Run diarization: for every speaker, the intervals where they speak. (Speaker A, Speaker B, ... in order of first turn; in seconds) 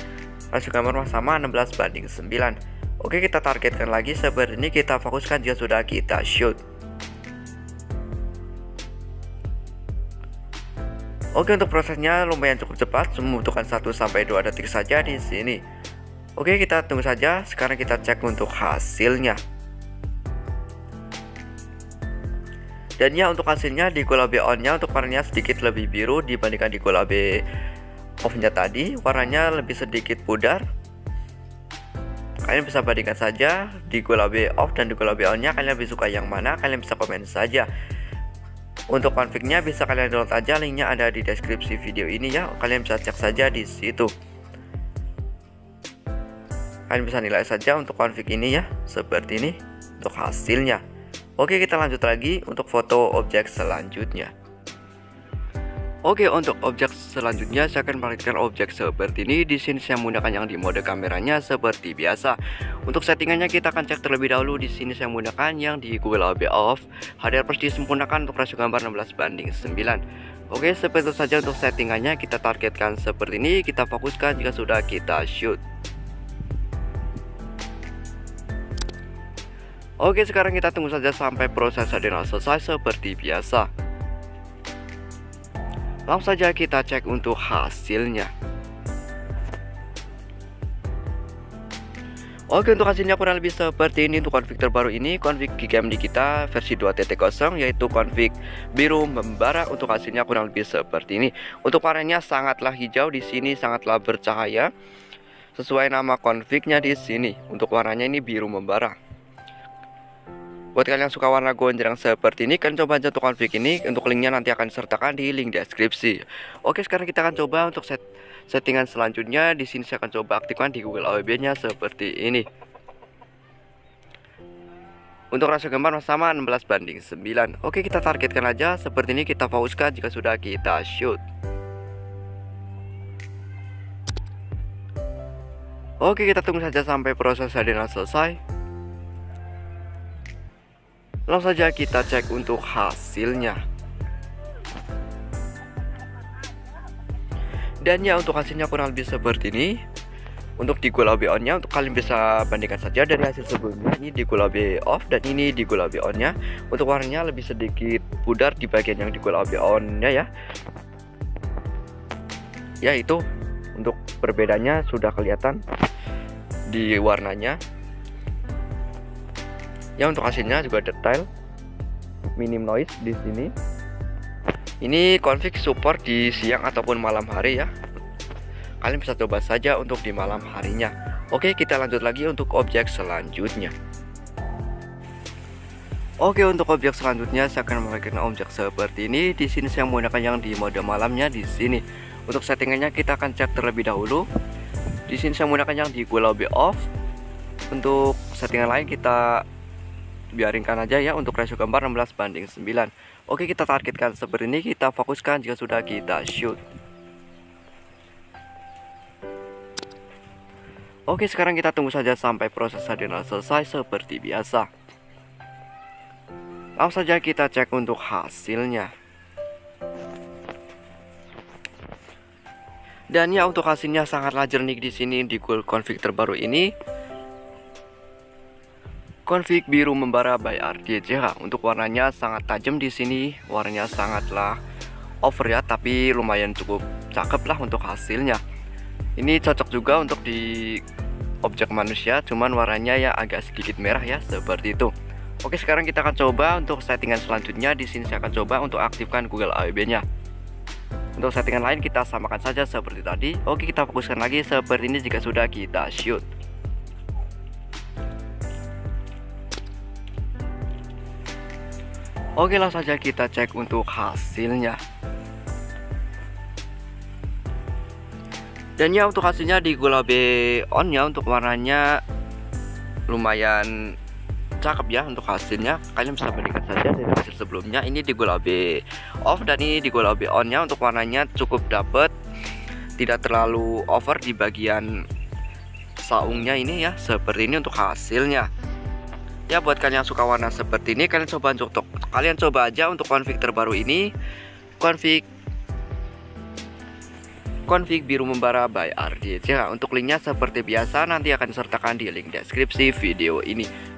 Speaker A: 0.5-6.6, 11.4-15.6, 16.4-19.4, 23.0-27.3, 28.2-30.6, 32.5-37.7, 38.9-44.1, 46.9-50.8, 51.4-54.3, 56.1-75.6, 80.0-83.7, 86.1-88.3, 92.5-104.7, 105.6-109.0, 110.8-122.5, 125.3-131.2, 136.0-138.4, 141.3-143.6, 147.8-149.8, 150.6-160.3, 162.8-163.2, 163.8-165.6, 166.7-167.6, 170.0-171.3, 172.4-173.5, 174.8-177.7, 178.8-183.7, 186.2-194.3, 195.1-196.9, 197.7-199.4, 200.3-206.6, 211.1-214.7, 216.8-218.9, 223.1-226.7, 229.3-234.6, 235.2-238.4, 239.2-240.8, 241.4-244.9, 245.4-250.0, 251.2-256.2, 262.4-264.8, 268.8-271.9, 273.1-273.9, 274.6-282.1, 283.0-284.9, 286.1-288.5, 289.5-294.1, 294.8-295.3, 297.7-303.7